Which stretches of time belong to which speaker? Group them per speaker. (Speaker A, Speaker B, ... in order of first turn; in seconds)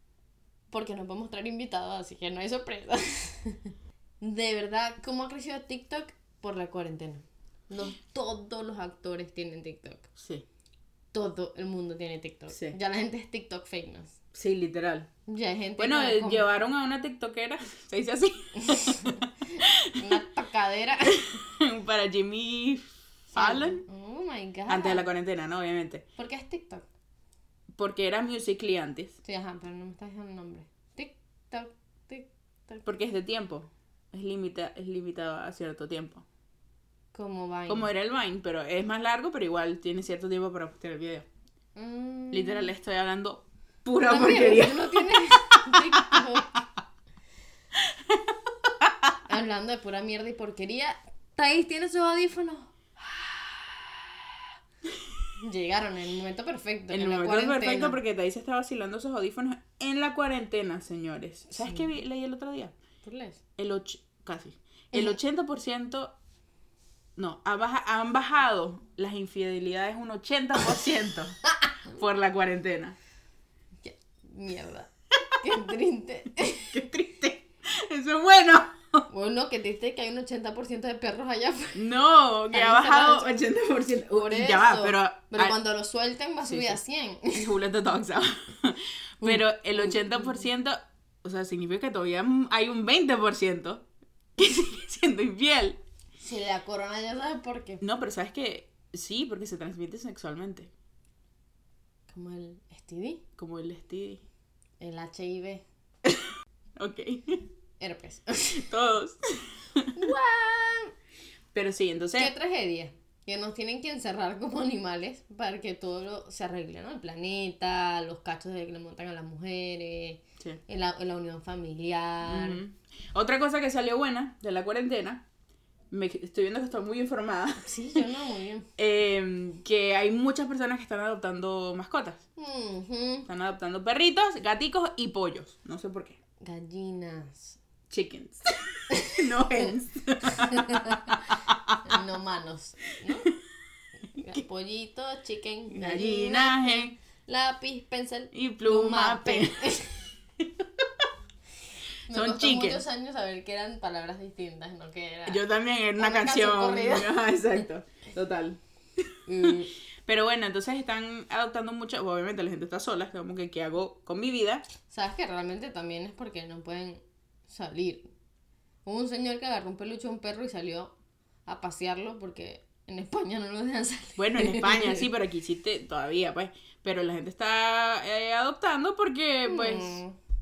Speaker A: 0.7-10.1, 11.1-14.2, 15.3-16.5, 18.6-21.3, 23.3-25.0, 26.2-26.9, 29.2-32.8, 37.1-37.9, 41.8-42.7, 44.0-46.5, 49.2-52.7, 55.4-58.0, 61.5-61.9, 63.0-63.4, 73.8-76.8, 79.1-81.8, 82.5-83.5, 84.1-87.5, 89.2-90.4, 96.2-97.8, 102.1-103.2, 104.8-105.6, 107.8-108.6, 109.9-110.9, 112.2-122.6, 127.6-128.7, 132.4-133.3, 136.4-137.6, 138.9-139.7, 140.2-141.2, 141.8-143.3, 144.1-150.1, 152.1-155.4, 156.0-157.1, 159.2-159.7, 164.9-168.1, 168.8-170.9, 171.4-175.1, 179.4-180.2
Speaker B: 10.2-10.4, 12.5-12.8, 14.3-15.1, 15.8-20.2, 21.3-23.8, 24.7-26.0, 27.7-29.1, 32.8-36.2, 37.7-41.2, 42.3-46.2, 47.9-48.3, 56.9-62.7, 63.6-66.1, 67.2-71.4, 71.9-73.0, 76.7-79.0, 81.7-85.5, 86.4-86.8, 87.3-93.8, 94.4-95.8, 97.8-100.7, 103.4-104.2, 106.8-107.4, 108.5-109.9, 111.5-112.3, 122.2-125.2, 125.9-127.7, 128.8-132.2, 133.2-136.2, 137.9-141.9, 145.7-146.9, 148.3-149.6, 152.1-152.8, 155.2-159.5, 160.0-164.6, 174.2-180.0